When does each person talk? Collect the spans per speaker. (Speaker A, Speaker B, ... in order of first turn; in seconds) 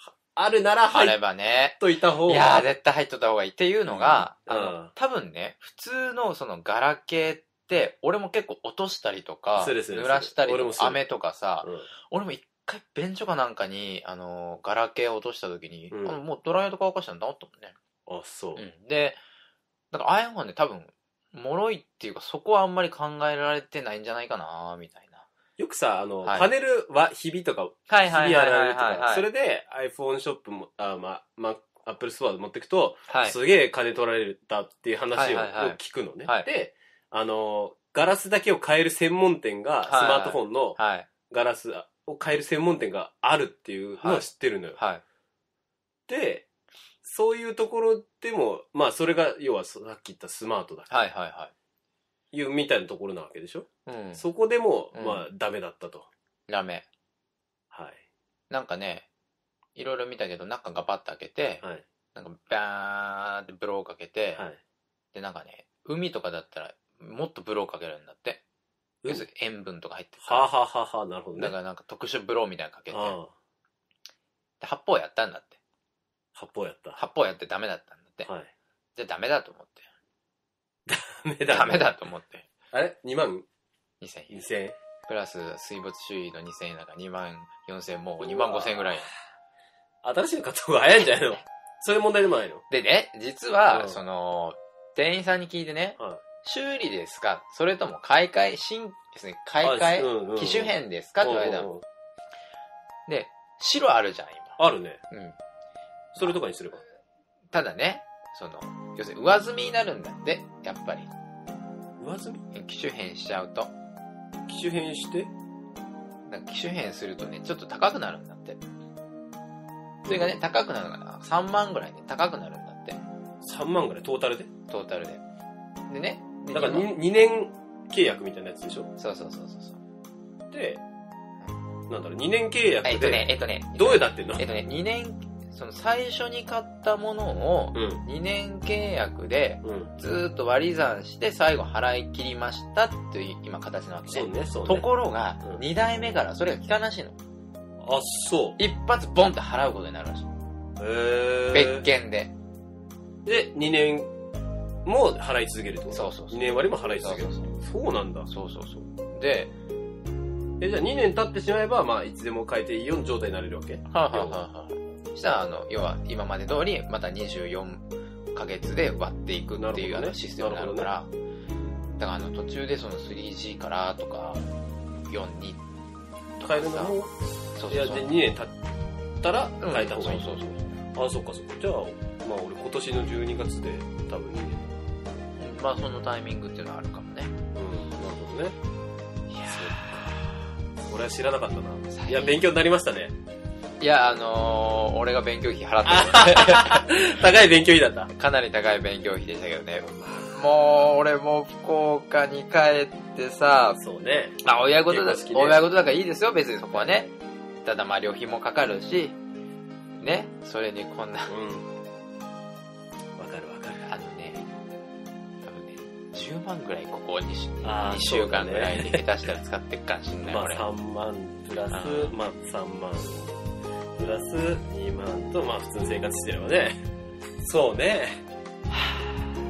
Speaker A: 0.3-1.2, 1.8-2.7, 3.9-4.9, 9.6-11.0, 11.6-11.9, 15.9-16.2, 18.1-18.6, 25.6-40.8, 41.3-44.8, 46.1-46.5, 47.0-50.9, 52.3-56.1, 57.7-58.0, 70.2-71.5, 72.9-73.3, 76.3-77.0, 78.2-78.5, 80.9-82.0, 82.7-83.5, 84.3-84.8, 88.2-89.1, 90.0-92.6, 93.7-94.0, 99.6-101.8, 104.6-105.0, 106.1-106.8, 112.0-112.4, 114.5-115.3, 120.0-120.4, 123.4-124.5, 126.5-128.9, 130.5-130.8, 131.9-134.5, 137.7-138.0, 139.6-139.9, 144.1-144.9, 147.8-148.6, 150.8-151.9, 153.2-154.1, 154.8-158.3, 160.6-164.4, 169.6-170.9, 176.4-177.1, 177.7-178.5, 179.2-184.8, 187.6-188.6, 189.5-190.0, 190.8-193.1, 195.8-198.1, 199.8-200.7, 203.8-205.7, 206.7-207.1, 211.3-211.7, 213.2-213.9, 217.6-219.0, 220.2-223.4, 224.0-226.8, 227.4-228.2
Speaker B: 0.9-17.8, 18.6-19.2, 19.9-25.2, 26.2-26.5, 27.9-29.3, 33.1-33.4, 35.1-36.5, 39.9-41.1, 44.0-45.0, 50.9-51.5, 53.9-54.2, 55.0-55.2, 56.5-56.9, 58.5-59.1, 59.8-61.6, 62.1-64.4, 65.1-68.4, 69.1-70.5, 71.4-73.2, 74.6-75.6, 77.0-78.3, 79.0-79.8, 81.5-82.5, 84.0-84.5, 85.1-89.1, 92.7-101.7, 103.1-104.6, 105.1-105.4, 107.5-111.1, 112.5-113.7, 116.3-118.6, 120.1-123.0, 124.7-125.2, 125.9-126.9, 129.0-129.8, 132.8-147.2, 148.6-150.3, 151.5-152.3, 155.9-157.5, 158.3-159.5, 163.9-171.1, 172.0-174.4, 175.1-175.6, 176.4-176.9, 177.6-178.1, 179.6-180.6, 185.4-187.3, 189.3-190.5, 191.9-192.4, 193.8-196.9, 198.2-203.8, 204.4-207.1, 207.6-209.2, 210.0-211.3, 213.9-214.4, 215.4-220.7, 221.7-222.1, 228.8-229.2